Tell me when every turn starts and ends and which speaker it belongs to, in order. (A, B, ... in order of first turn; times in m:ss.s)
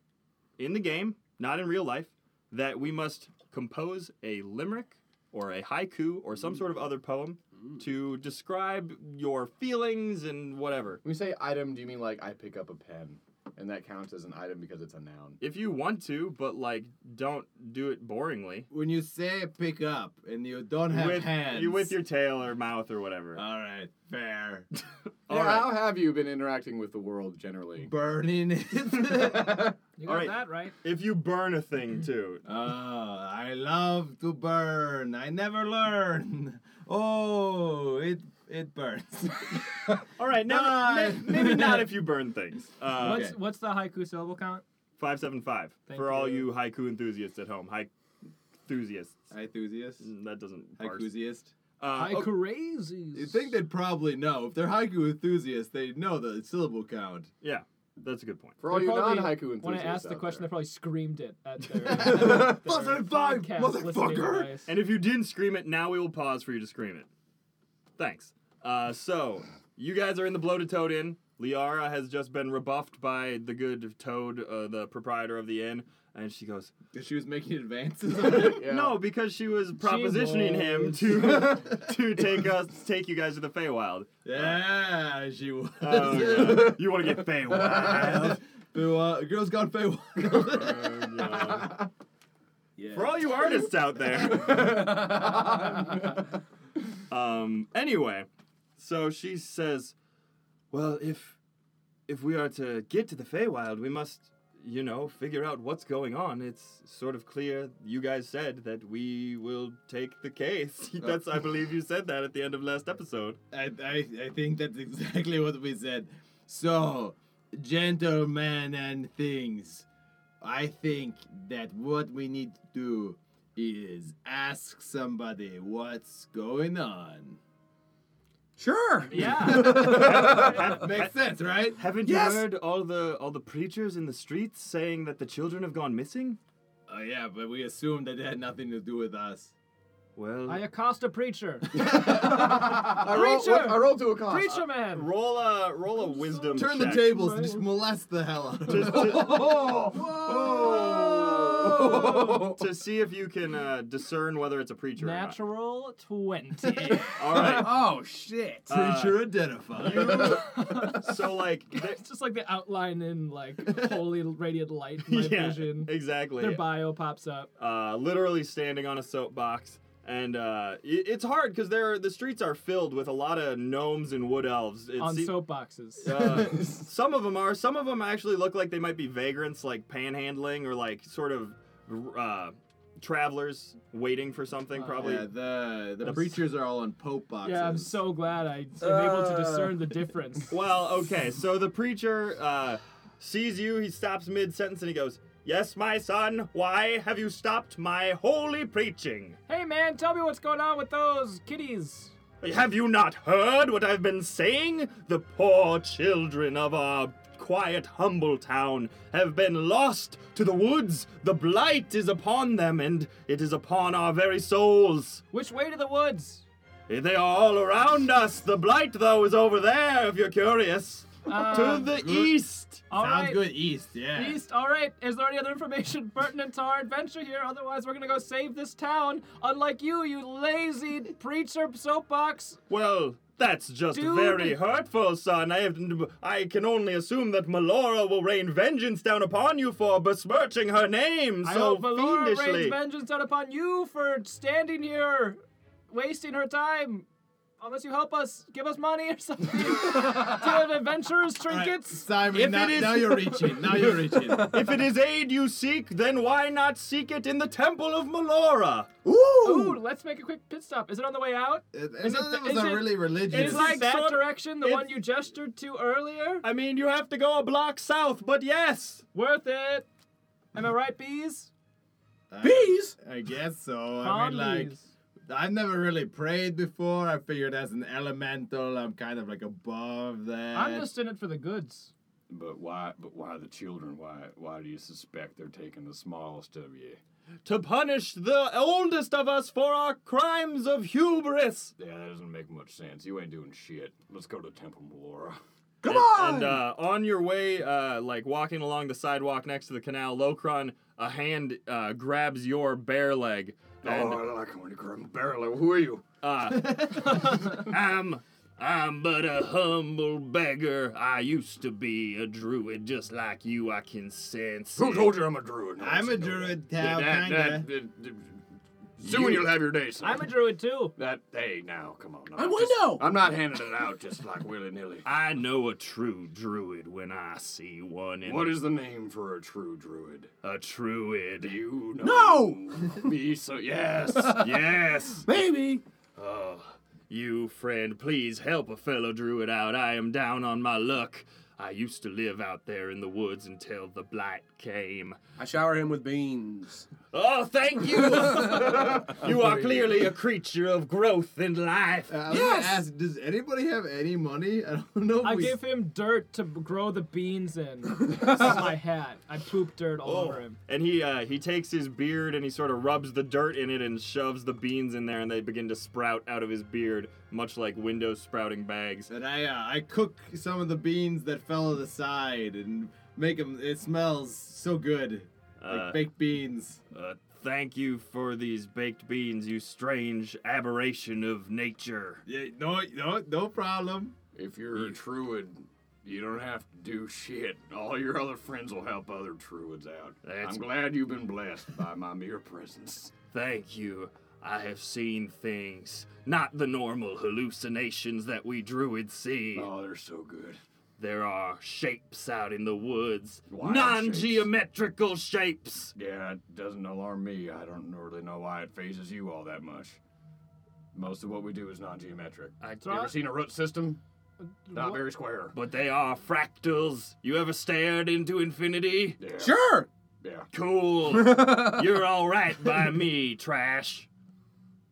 0:00.6-0:11.0 A
0:11.0-0:15.4 B
0:15.4-0:18.7 A
0:18.7-0:21.9 C
0:20.9-0:23.4 A
0:23.3-0:24.7 C
0:25.3-0:25.8 A
0:25.3-0:27.9 B
0:27.8-0:29.7 C
0:30.0-0:30.7 D
0:30.0-0:32.4 A
0:32.4-0:41.9 C
0:40.1-0:43.3 A
0:42.9-0:43.4 C
0:43.0-0:44.6 D
0:45.0-0:47.9 A
0:45.9-0:46.5 D
0:48.6-0:49.2 A
0:49.3-0:50.1 C
0:50.0-0:51.1 A
0:50.8-0:51.5 C
0:51.8-0:52.4 A
0:51.9-0:53.5 D
0:53.1-0:57.3 C
0:57.4-0:58.6 A
0:58.6-1:00.5 B
0:58.6-1:04.7 D
1:01.8-1:04.4 C
1:04.0-1:04.4 E
1:04.7-1:07.1 A
1:08.0-1:16.7 A
1:16.9-1:18.7 C
1:18.2-1:19.0 B
1:18.3-1:24.6 A
1:19.8-1:21.1 D
1:21.1-1:22.3 C
1:24.2-1:31.3 C
1:25.8-1:28.4 A
1:30.3-1:31.8 A
1:32.8-1:33.2 E
1:32.9-1:34.8 A
1:34.3-1:35.9 B
1:34.7-1:35.1 E
1:37.1-1:39.9 A
1:40.7-1:41.4 A
1:42.1-1:53.4 A
1:53.5-1:59.8 C
2:00.4-2:07.4 C
2:08.6-2:10.6 E
2:09.1-2:10.0 D
2:09.2-2:11.1 A
2:09.2-2:11.8 C
2:11.7-2:16.4 A
2:12.0-2:12.5 E
2:16.9-2:19.5 C
2:20.2-2:20.7 A
2:20.5-2:25.1 D
2:21.7-2:24.6 B
2:21.8-2:22.4 C
2:24.8-2:27.1 A
2:26.0-2:27.7 D
2:26.5-2:31.8 C
2:28.6-2:29.4 A
2:29.1-2:32.6 B
2:30.2-2:32.0 E
2:32.4-2:35.4 A
2:35.0-2:37.1 D
2:37.2-2:37.8 A
2:37.2-2:38.7 E
2:38.6-2:40.7 C
2:38.7-2:42.0 A
2:39.8-2:41.1 D
2:41.7-2:47.5 D
2:45.0-2:46.6 A
2:47.6-2:55.4 A
2:55.0-2:56.1 D
2:56.0-3:05.3 A
2:56.1-2:56.7 C
3:04.7-3:05.3 D
3:05.0-3:08.0 C
3:06.0-3:06.4 D
3:07.4-3:10.5 D
3:08.8-3:09.9 E
3:10.5-3:19.4 A
3:19.5-3:22.1 D
3:22.4-3:35.2 A
3:35.3-3:36.4 D
3:36.9-3:42.8 A
3:41.2-3:42.0 D
3:41.5-3:42.3 C
3:42.9-3:43.6 D
3:42.9-3:44.4 C
3:44.1-3:52.6 D
3:52.7-4:02.8 A
3:53.9-3:54.6 D
4:01.4-4:07.0 D
4:07.6-4:12.2 D
4:11.5-4:14.6 C
4:12.3-4:13.6 A
4:14.1-4:14.8 E
4:14.5-4:18.9 A
4:19.0-4:19.8 E
4:19.4-4:26.4 D
4:21.7-4:23.8 C
4:23.3-4:24.9 A
4:26.4-4:29.0 A
4:29.1-4:29.8 D
4:30.5-4:31.5 D
4:32.3-4:40.9 C
4:32.4-4:33.0 E
4:34.0-4:34.9 D
4:40.5-4:41.9 D
4:42.3-4:47.0 B
4:47.4-4:51.7 A
4:51.8-4:55.4 B
4:55.8-4:56.6 E
4:55.8-5:04.3 A
5:03.8-5:06.0 B
5:06.2-5:15.2 A
5:06.7-5:07.2 C
5:14.7-5:18.4 B
5:15.8-5:17.7 C
5:19.0-5:20.4 B
5:19.0-5:19.4 C
5:20.0-5:21.0 D
5:21.0-5:25.1 B
5:22.4-5:23.1 E
5:25.0-5:28.6 A
5:28.2-5:30.3 B
5:30.4-5:31.6 A
5:31.4-5:34.4 B
5:32.0-5:32.7 E
5:34.4-5:35.3 A
5:35.2-5:35.8 E
5:36.2-5:45.2 A
5:45.4-5:46.9 E
5:47.1-5:52.2 A
5:52.1-5:55.6 C
5:52.3-5:52.8 E
5:55.2-6:00.6 D
6:00.0-6:09.1 A
6:09.1-6:16.8 C
6:15.6-6:16.0 A
6:16.9-6:22.2 A
6:22.2-6:24.1 C
6:24.3-6:33.1 B
6:30.2-6:30.7 A
6:33.3-6:39.7 A
6:39.5-6:40.6 B
6:41.0-6:45.9 A
6:43.5-6:44.5 B
6:45.9-6:50.0 B
6:50.9-6:54.0 B
6:52.6-6:53.3 A
6:54.7-6:55.0 D
6:54.7-6:55.5 B
6:55.5-6:59.2 A
6:59.2-6:59.7 B
6:59.3-6:59.9 E
7:00.2-7:00.5 B
7:00.5-7:04.1 A
7:01.1-7:01.8 E